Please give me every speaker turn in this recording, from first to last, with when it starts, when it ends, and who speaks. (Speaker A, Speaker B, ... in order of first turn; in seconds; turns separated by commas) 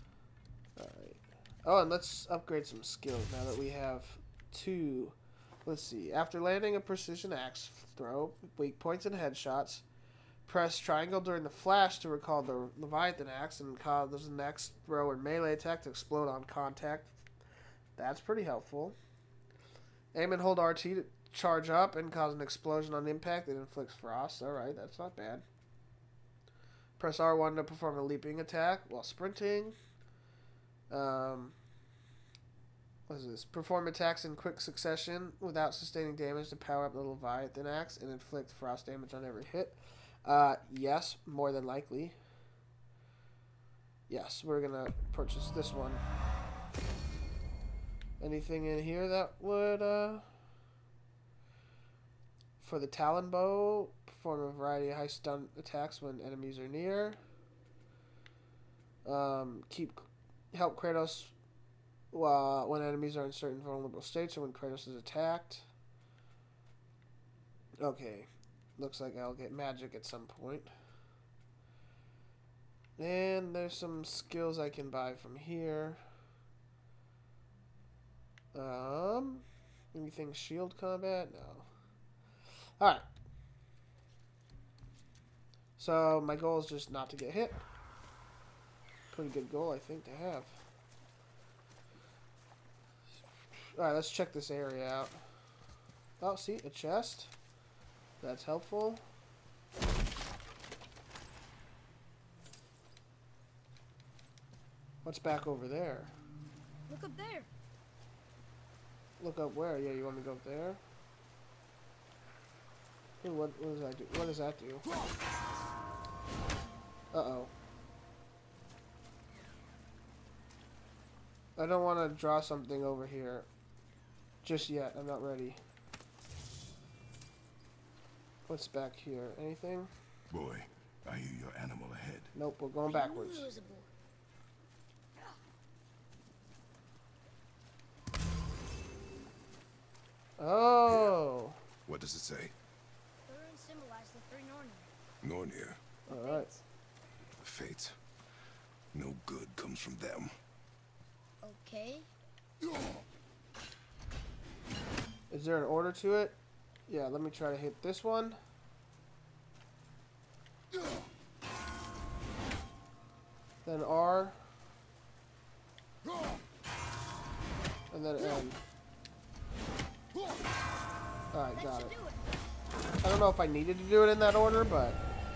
Speaker A: 0.8-9.8, Speaker A: 10.5-17.1, Speaker A: 18.0-19.0, Speaker A: 20.1-25.4, Speaker A: 27.0-29.8, Speaker A: 30.9-31.6, Speaker A: 33.1-42.2, Speaker A: 44.1-46.0, Speaker A: 48.2-50.3, Speaker A: 52.6-57.2, Speaker A: 59.0-61.3, Speaker A: 62.1-65.7, Speaker A: 67.8-70.7, Speaker A: 73.0-76.0, Speaker A: 78.5-81.7, Speaker A: 82.8-83.0, Speaker A: 85.8-87.6, Speaker A: 89.1-90.6, Speaker A: 93.6-95.2, Speaker A: 96.2-97.3, Speaker A: 98.2-99.0, Speaker A: 105.0-106.1, Speaker B: 106.9-107.5, Speaker A: 109.2-110.8, Speaker A: 113.2-114.8, Speaker A: 117.1-117.5, Speaker A: 121.6-123.5, Speaker A: 124.4-125.6, Speaker A: 128.5-129.9, Speaker C: 130.3-132.3, Speaker A: 132.3-133.5, Speaker B: 132.9-133.9, Speaker A: 140.4-141.6, Speaker C: 140.9-141.2, Speaker C: 141.9-142.5, Speaker B: 143.3-144.9, Speaker C: 145.2-145.8, Speaker A: 146.1-146.5, Speaker B: 146.1-146.6, Speaker C: 147.4-148.0, Speaker C: 148.9-150.3, Speaker B: 151.4-152.1, Speaker A: 155.3-156.4, Speaker A: 156.9-158.4, Speaker A: 163.7-164.4, Speaker A: 167.9-168.6, Speaker A: 171.3-171.9, Speaker B: 171.6-172.2, Speaker A: 173.0-175.0